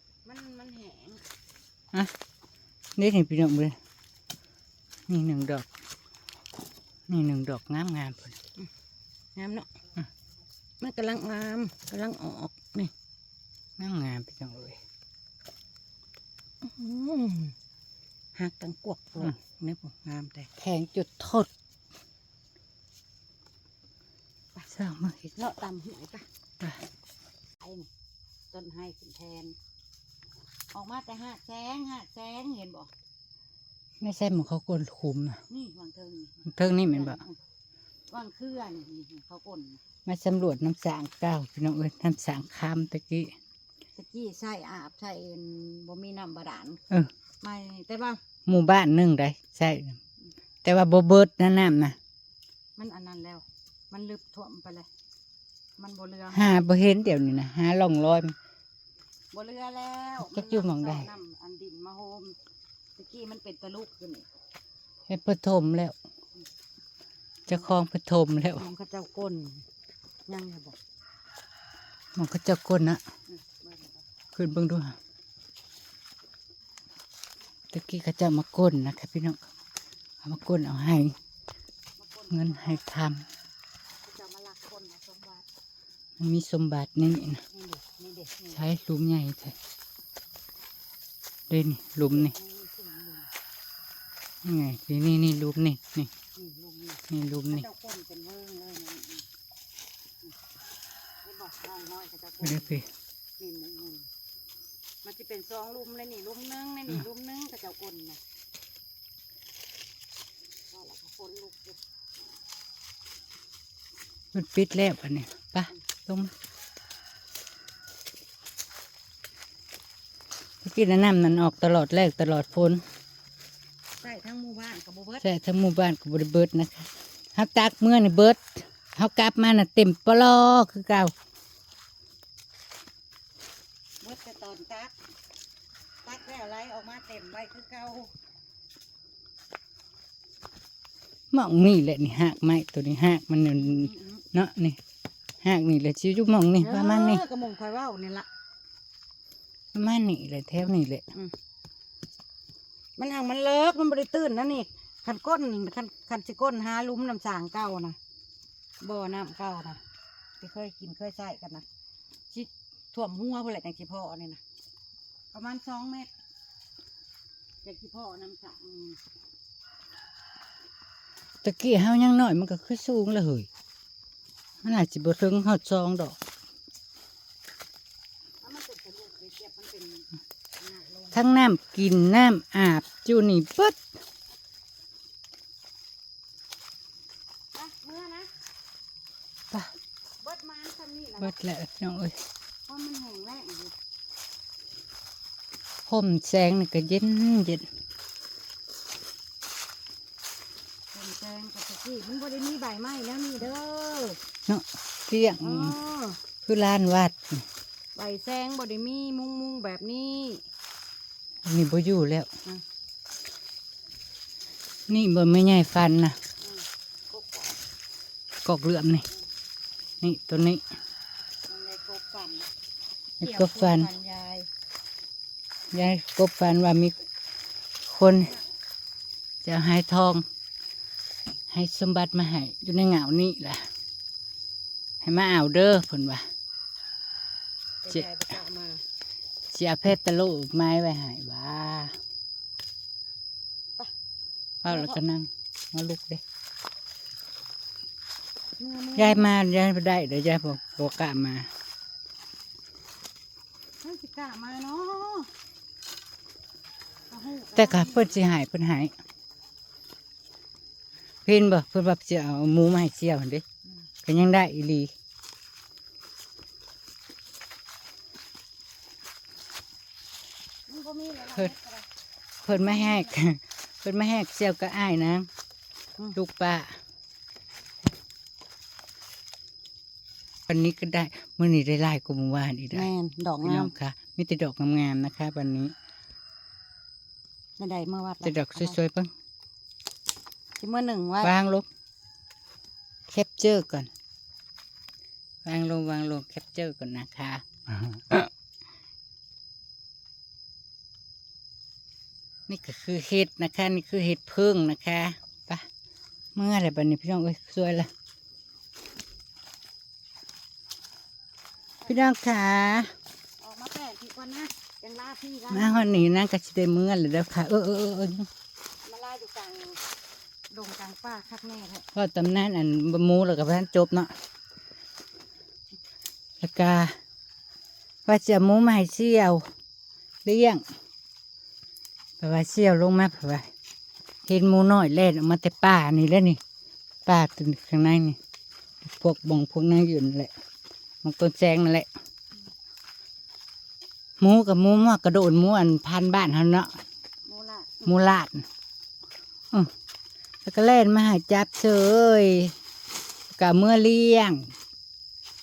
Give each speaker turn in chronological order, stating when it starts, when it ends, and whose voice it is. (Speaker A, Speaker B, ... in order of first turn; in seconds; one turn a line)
Speaker A: 0.2-1.2
Speaker B: 3.0-3.8
Speaker B: 5.1-5.7
Speaker B: 7.1-8.4
Speaker A: 9.3-9.7
Speaker A: 10.8-12.9
Speaker B: 13.8-14.8
Speaker A: 16.6-17.5
Speaker A: 18.4-20.5
Speaker B: 20.6-21.5
Speaker B: 24.7-25.3
Speaker A: 25.4-26.2
Speaker A: 27.6-27.9
Speaker A: 28.5-29.6
Speaker A: 30.7-32.9
Speaker B: 34.0-35.4
Speaker A: 35.5-37.4
Speaker B: 36.5-37.2
Speaker A: 38.1-39.8
Speaker B: 40.0-43.3
Speaker A: 44.0-46.8
Speaker A: 47.4-48.2
Speaker B: 48.5-50.0
Speaker B: 50.6-52.0
Speaker A: 52.8-54.9
Speaker A: 55.8-56.6
Speaker B: 56.3-58.3
Speaker A: 59.3-62.4
Speaker B: 60.2-61.1
Speaker A: 63.0-64.2
Speaker B: 65.1-65.9
Speaker B: 67.5-68.7
Speaker A: 68.5-69.6
Speaker A: 70.3-70.8
Speaker B: 72.2-73.0
Speaker A: 73.3-74.0
Speaker B: 74.3-75.0
Speaker B: 77.7-79.4
Speaker B: 80.2-81.2
Speaker A: 81.9-82.9
Speaker B: 82.3-83.2
Speaker A: 84.0-85.5
Speaker B: 86.2-87.4
Speaker A: 87.5-88.6
Speaker B: 88.5-89.5
Speaker B: 91.5-92.3
Speaker A: 92.1-93.3
Speaker B: 94.4-96.1
Speaker A: 96.3-99.3
Speaker B: 97.1-97.7
Speaker A: 101.2-102.7
Speaker B: 102.4-102.9
Speaker A: 103.4-104.1
Speaker A: 105.0-108.2
Speaker A: 110.7-111.8
Speaker B: 114.3-116.3
Speaker B: 120.6-122.8
Speaker A: 124.0-125.2
Speaker B: 125.2-131.1
Speaker A: 134.0-134.9
Speaker A: 136.0-138.1
Speaker B: 141.3-144.8
Speaker A: 143.6-144.2
Speaker B: 145.4-147.2
Speaker A: 146.6-148.3
Speaker B: 149.7-151.0
Speaker A: 153.0-158.0
Speaker A: 158.8-159.8
Speaker A: 160.4-161.7
Speaker A: 162.3-164.4
Speaker A: 165.3-166.1
Speaker A: 167.6-169.0
Speaker B: 171.4-173.5
Speaker B: 174.6-176.2
Speaker A: 178.4-181.3
Speaker B: 181.1-183.8
Speaker A: 187.5-188.3
Speaker A: 190.2-191.3
Speaker B: 191.2-192.2
Speaker A: 192.7-193.7
Speaker B: 195.9-197.7
Speaker A: 200.9-204.2
Speaker B: 204.5-205.7
Speaker A: 205.3-206.2
Speaker B: 206.4-207.4
Speaker A: 207.9-210.4
Speaker B: 211.4-212.3
Speaker B: 214.9-216.2
Speaker A: 216.4-217.6
Speaker B: 218.4-219.1
Speaker B: 220.0-220.6
Speaker A: 221.5-222.5
Speaker B: 223.2-223.9
Speaker A: 223.2-224.5
Speaker B: 225.7-226.9
Speaker B: 227.8-228.4
Speaker B: 229.4-230.2
Speaker B: 231.5-233.7
Speaker B: 235.0-236.3
Speaker A: 237.8-238.8
Speaker B: 239.5-242.0
Speaker B: 244.6-246.2
Speaker A: 244.7-245.0
Speaker A: 248.6-249.3
Speaker B: 248.9-251.5
Speaker A: 253.8-255.3
Speaker A: 257.1-258.2
Speaker B: 257.6-258.9
Speaker B: 261.2-263.4
Speaker B: 264.0-264.9
Speaker A: 270.7-271.9
Speaker B: 272.4-275.3
Speaker A: 272.5-273.1
Speaker B: 276.1-276.8
Speaker B: 280.5-282.9
Speaker A: 282.7-283.7
Speaker B: 283.4-285.7
Speaker A: 287.6-288.8
Speaker B: 288.2-289.1
Speaker A: 290.6-291.4
Speaker B: 291.2-291.7
Speaker B: 293.1-293.9
Speaker B: 295.4-298.3
Speaker B: 302.5-305.7
Speaker B: 306.3-307.9
Speaker A: 311.8-312.1
Speaker B: 311.9-312.9
Speaker A: 313.4-316.0
Speaker B: 315.5-318.3
Speaker A: 318.8-319.8
Speaker A: 320.5-321.9
Speaker B: 321.9-324.1
Speaker B: 326.4-327.0
Speaker B: 328.1-329.4
Speaker B: 330.2-330.6
Speaker B: 332.2-333.5
Speaker B: 334.2-336.4
Speaker B: 337.0-338.2
Speaker B: 338.8-340.3
Speaker B: 341.0-341.9
Speaker B: 344.2-346.7
Speaker A: 347.2-348.0
Speaker B: 347.8-348.4
Speaker B: 350.4-352.5
Speaker B: 353.3-354.5